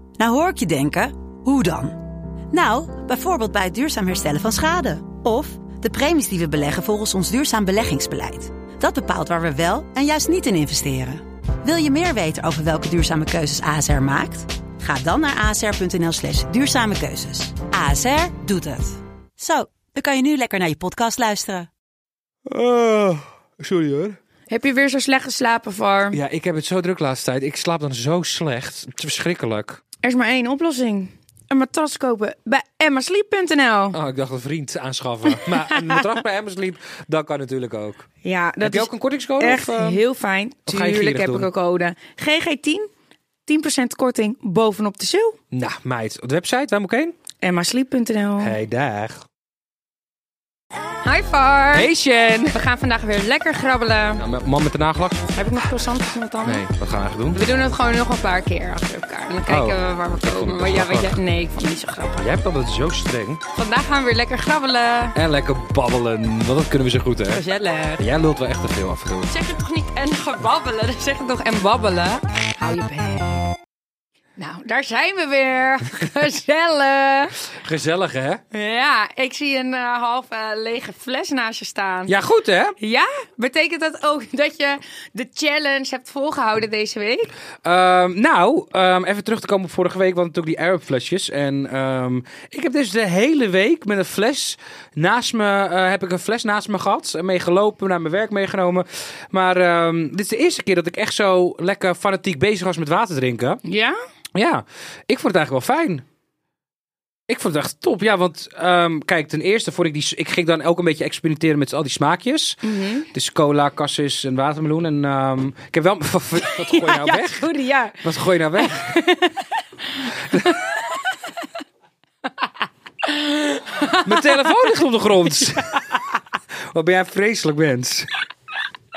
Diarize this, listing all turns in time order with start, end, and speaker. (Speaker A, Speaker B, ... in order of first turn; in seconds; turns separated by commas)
Speaker A: 0.2-21.7, Speaker B: 22.5-24.2, Speaker C: 24.5-26.2, Speaker B: 26.1-29.8, Speaker C: 30.0-34.0, Speaker B: 33.9-38.1, Speaker C: 35.3-35.9, Speaker C: 38.2-42.9, Speaker B: 38.6-40.0, Speaker B: 40.7-41.5, Speaker C: 43.5-45.4, Speaker B: 45.5-47.1, Speaker C: 47.4-48.5, Speaker B: 48.4-49.2, Speaker C: 51.0-51.9, Speaker B: 51.7-52.6, Speaker C: 52.5-54.2, Speaker B: 54.2-55.3, Speaker C: 55.3-56.7, Speaker B: 56.4-57.4, Speaker C: 57.3-62.3, Speaker B: 59.5-61.2, Speaker B: 62.2-63.4, Speaker C: 63.5-65.2, Speaker B: 65.2-67.4, Speaker C: 67.3-68.0, Speaker B: 68.0-69.3, Speaker C: 69.3-73.5, Speaker C: 74.4-77.4, Speaker B: 77.5-78.4, Speaker C: 78.5-82.1, Speaker B: 82.1-82.8, Speaker C: 82.8-87.3, Speaker B: 87.6-103.6, Speaker C: 103.7-104.0, Speaker B: 104.3-106.0, Speaker B: 107.3-117.5, Speaker C: 112.6-113.1, Speaker C: 116.4-118.0, Speaker B: 118.0-118.9, Speaker C: 118.6-121.1, Speaker B: 120.2-120.5, Speaker C: 123.0-124.7, Speaker B: 124.0-125.8, Speaker C: 125.4-126.0, Speaker B: 126.7-128.2